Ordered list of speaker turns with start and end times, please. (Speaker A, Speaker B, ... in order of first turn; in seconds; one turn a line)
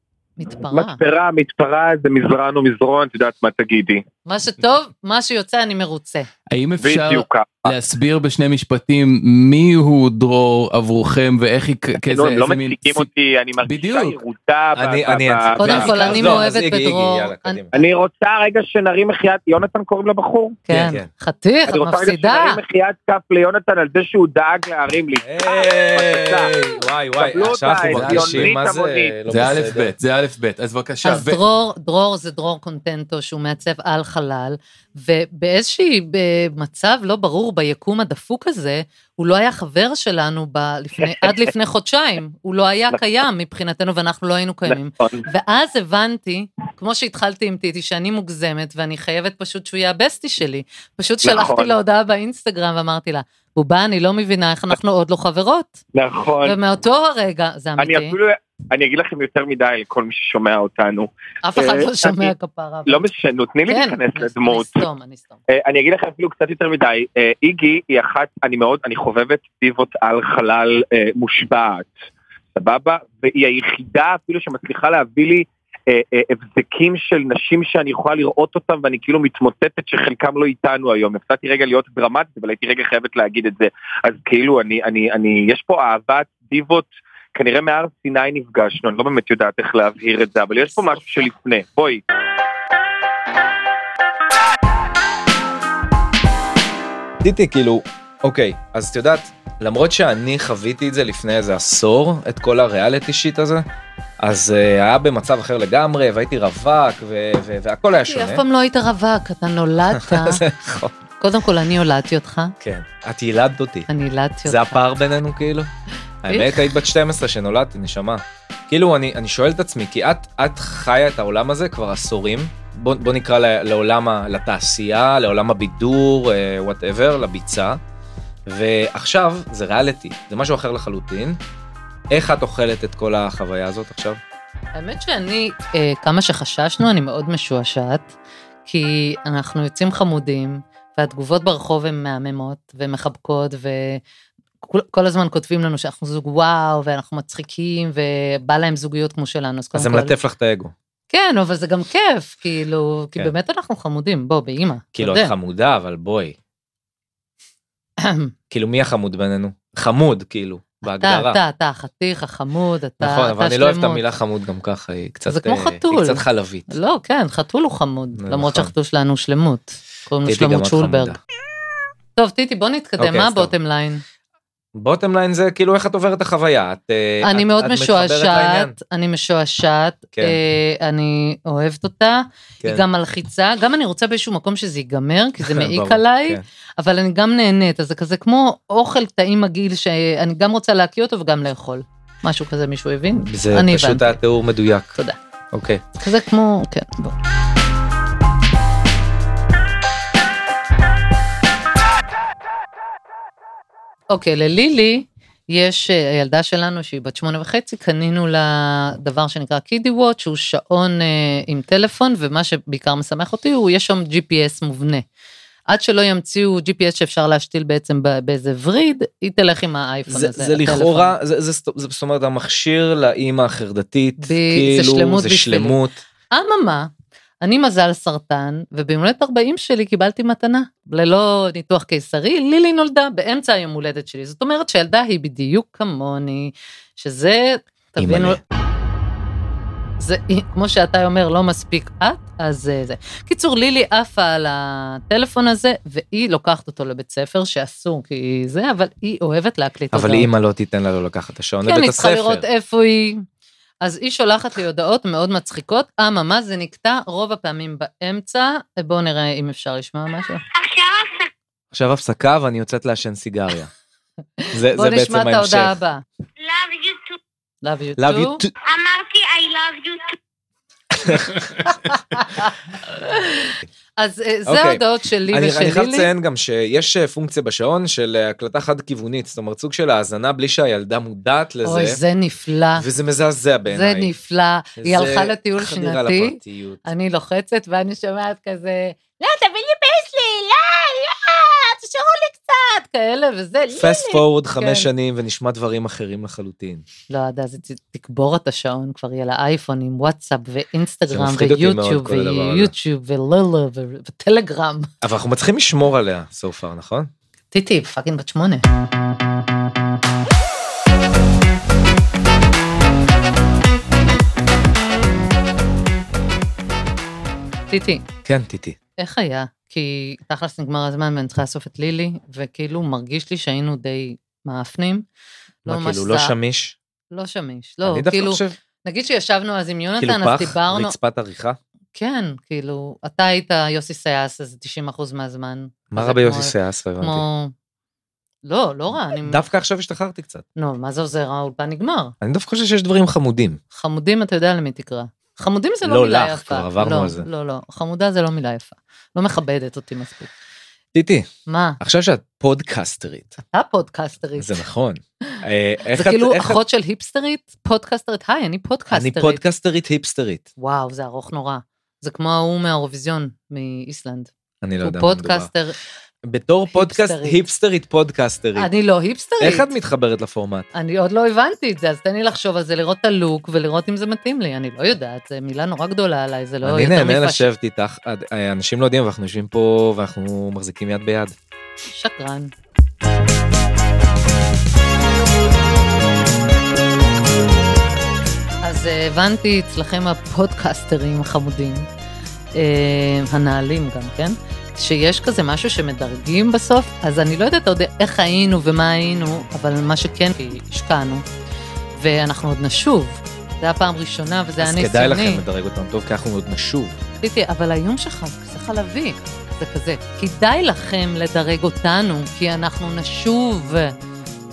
Speaker A: 0.4-1.0
Speaker B: 0.6-4.0
Speaker A: 4.2-6.3
Speaker C: 6.5-13.1
Speaker B: 6.8-7.7
Speaker B: 11.9-16.4
Speaker C: 13.6-14.2
Speaker D: 14.8-17.8
Speaker A: 15.6-17.7
Speaker C: 15.7-16.4
Speaker B: 17.7-20.6
Speaker A: 20.7-22.6
Speaker D: 20.7-21.1
Speaker B: 21.7-29.2
Speaker D: 25.2-29.9
Speaker C: 27.8-28.5
Speaker C: 29.3-31.4
Speaker A: 31.0-55.8
Speaker B: 41.0-41.4
Speaker B: 44.7-45.2
Speaker B: 51.2-51.8
Speaker B: 55.9-56.6
Speaker A: 56.4-58.1
Speaker B: 57.8-62.3
Speaker A: 61.4-63.0
Speaker B: 62.9-64.8
Speaker A: 63.7-65.4
Speaker B: 65.5-71.9
Speaker B: 72.5-92.0
Speaker A: 90.6-91.3
Speaker D: 97.2-103.6
Speaker D: 104.2-108.4
Speaker A: 108.0-110.4
Speaker D: 109.9-110.9
Speaker A: 111.2-112.5
Speaker D: 112.6-113.9
Speaker A: 113.9-114.8
Speaker D: 114.5-115.7
Speaker D: 116.2-127.8
Speaker A: 116.3-116.8
Speaker D: 128.5-131.4
Speaker D: 132.1-134.2
Speaker A: 134.7-138.1
Speaker A: 138.7-144.0
Speaker A: 144.6-150.1
Speaker D: 149.7-150.7
Speaker A: 151.1-155.3
Speaker D: 154.9-156.3
Speaker A: 158.0-158.3
Speaker D: 158.5-161.4
Speaker A: 160.8-164.0
Speaker D: 163.0-166.7
Speaker A: 165.3-171.2
Speaker D: 168.2-168.7
Speaker D: 170.2-171.2
Speaker A: 172.2-174.0
Speaker D: 173.0-173.5
Speaker D: 174.7-178.8
Speaker A: 177.2-194.2
Speaker D: 185.4-186.4
Speaker D: 193.2-194.9
Speaker D: 195.5-195.8
Speaker A: 196.0-197.1
Speaker A: 204.1-215.0
Speaker A: 215.7-221.1
Speaker D: 220.1-226.0
Speaker A: 224.2-225.8
Speaker A: 226.3-226.9
Speaker A: 227.4-238.4
Speaker D: 238.0-238.4
Speaker A: 240.0-250.3
Speaker D: 249.9-252.4
Speaker A: 251.6-253.2
Speaker A: 253.8-260.4
Speaker E: 260.6-261.3
Speaker D: 261.7-263.7
Speaker A: 264.4-266.0
Speaker D: 264.5-265.8
Speaker E: 266.4-267.2
Speaker A: 267.6-268.4
Speaker D: 268.0-268.5
Speaker E: 268.6-270.1
Speaker D: 271.0-271.6
Speaker A: 271.2-276.1
Speaker D: 274.5-282.0
Speaker A: 281.6-282.8
Speaker D: 282.8-284.1
Speaker A: 283.7-294.9
Speaker D: 284.8-286.8
Speaker D: 293.7-296.9
Speaker A: 297.1-304.9
Speaker D: 301.1-302.7
Speaker D: 305.0-307.1
Speaker A: 307.5-308.6
Speaker A: 317.7-318.1
Speaker D: 318.2-318.8
Speaker A: 319.0-325.1
Speaker A: 325.6-326.3
Speaker D: 325.6-326.8
Speaker A: 327.1-330.9
Speaker D: 327.8-328.6
Speaker D: 330.0-331.6
Speaker A: 331.9-337.5
Speaker D: 335.9-337.2
Speaker A: 338.4-339.4
Speaker D: 339.2-340.4
Speaker A: 340.6-342.1
Speaker D: 342.2-343.6
Speaker A: 343.7-350.3
Speaker D: 345.8-347.3
Speaker D: 350.9-351.3
Speaker A: 351.5-351.8
Speaker D: 351.8-353.4
Speaker A: 353.5-354.6
Speaker D: 354.4-356.6
Speaker A: 355.9-359.4
Speaker D: 358.9-360.4
Speaker A: 360.6-364.3
Speaker D: 364.6-365.5
Speaker A: 364.8-365.8
Speaker D: 366.3-368.7
Speaker A: 366.7-367.5
Speaker A: 368.6-369.7
Speaker D: 369.4-370.7
Speaker A: 370.7-377.5
Speaker D: 376.6-381.3
Speaker A: 381.9-382.5
Speaker A: 388.6-391.9
Speaker A: 392.6-401.2
Speaker A: 401.9-405.4
Speaker D: 404.6-407.0
Speaker A: 407.2-413.9